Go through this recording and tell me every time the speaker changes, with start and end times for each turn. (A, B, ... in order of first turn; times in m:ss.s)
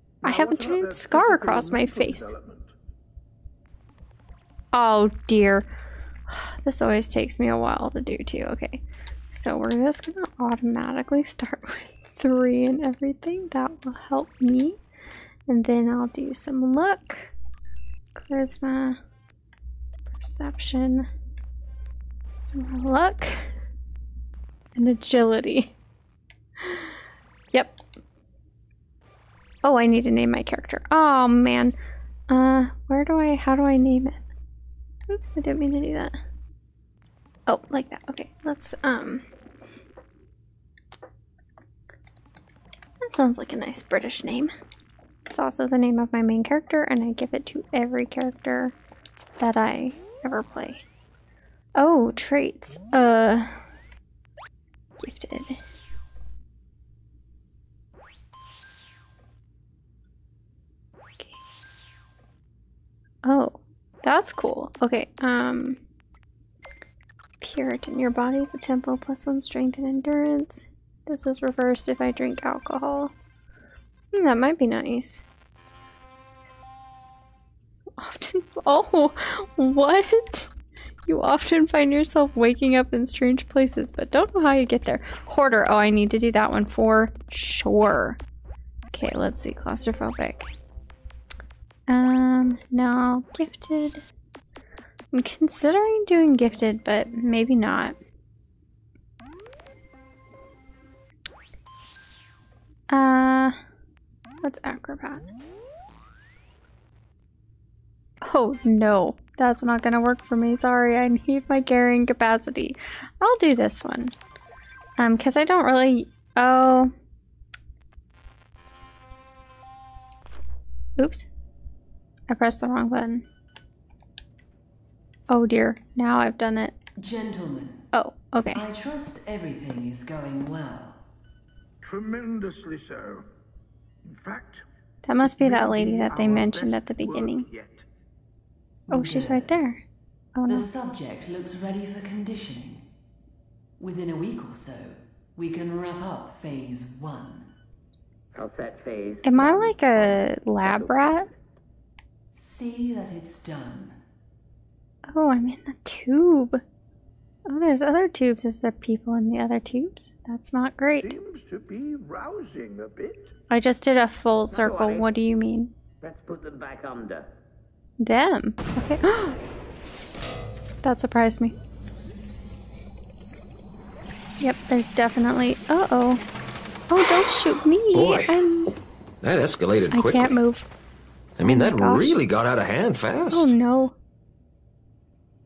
0:00.2-0:02.7 A
0:00.2-0:02.3 B
0:04.7-0:05.7 B
0:06.3-0:14.8 B
0:15.5-0:17.3 B
0:18.2-0:19.0 B
0:20.1-0:21.1 B
0:22.4-0:23.5 B
0:24.8-0:25.7 B
0:26.6-0:26.9 B
0:27.5-0:27.8 B
0:29.6-0:31.8 B
0:32.3-0:34.2 B
0:35.1-0:36.2 B
0:37.5-0:39.2 B
0:43.0-0:44.5 B
0:45.3-0:48.7 B
0:49.4-0:50.8 B
0:51.8-0:53.6 B
0:55.0-0:55.6 B
1:03.2-1:05.8 B
1:07.4-1:13.1 B
1:14.1-1:15.2 B
1:18.0-1:20.5 B
1:21.0-1:28.2 B
1:28.9-1:30.5 B
1:31.9-1:34.0 B
1:35.1-1:38.0 B
1:42.9-1:43.6 B
1:44.4-1:45.2 B
1:48.2-1:54.1 B
1:55.0-1:56.9 B
2:01.0-2:01.3 B
2:02.3-2:03.2 B
2:05.3-2:06.8 B
2:07.0-2:07.8 C
2:07.9-2:08.6 B
2:08.5-2:11.0 C
2:11.8-2:13.2 A
2:14.0-2:14.6 A
2:15.0-2:17.5 B
2:15.2-2:17.8 A
2:18.9-2:19.5 C
2:18.9-2:19.8 B
2:20.3-2:20.7 B
2:20.5-2:22.8 C
2:23.8-2:27.5 C
2:28.3-2:31.3 D
2:29.2-2:31.3 B
2:32.3-2:34.0 C
2:35.1-2:36.6 B
2:37.5-2:41.2 B
2:41.0-2:43.3 A
2:43.5-2:45.7 B
2:44.5-2:45.2 D
2:46.0-2:47.3 D
2:48.0-2:49.4 B
2:50.8-2:51.6 B
2:54.4-2:56.2 B
2:56.9-2:58.7 B
2:57.9-2:58.4 E
2:59.2-3:00.4 E
2:59.9-3:00.7 B
3:01.4-3:03.5 E
3:01.4-3:02.2 B
3:03.3-3:04.0 B